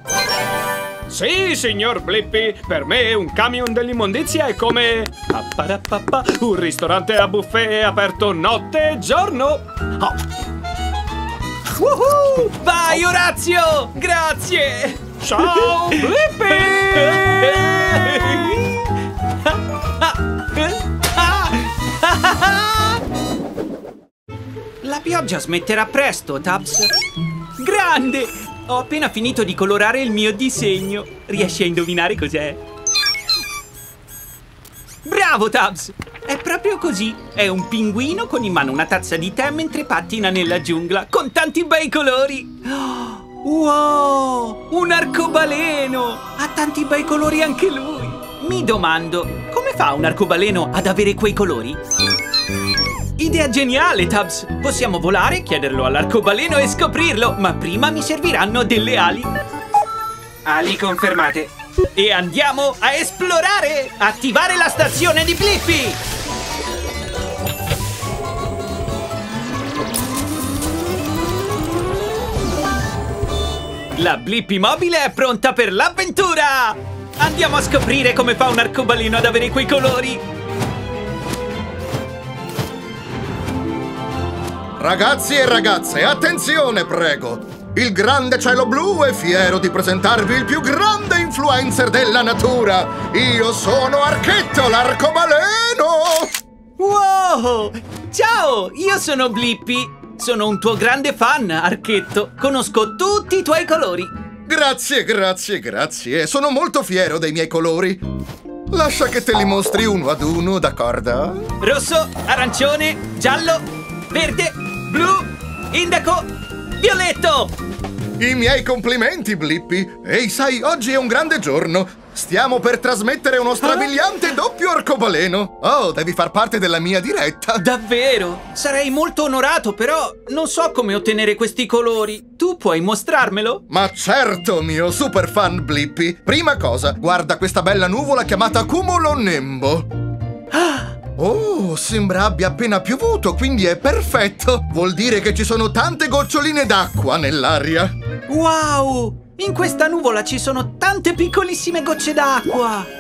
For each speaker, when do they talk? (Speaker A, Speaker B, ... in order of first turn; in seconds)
Speaker A: 1.1-10.2, 15.2-18.4, 60.5-61.5
Speaker B: 11.8-18.9, 19.4-23.0, 24.8-26.9, 27.6-32.6, 35.0-51.8, 53.2-59.3, 62.0-66.0, 74.0-80.2, 96.8-104.1, 111.6-117.5, 127.6-133.6, 140.5-140.9, 148.3-152.9
Speaker C: 84.8-96.3, 104.5-108.1, 108.7-111.5, 118.2-127.7, 133.7-139.9, 141.2-147.9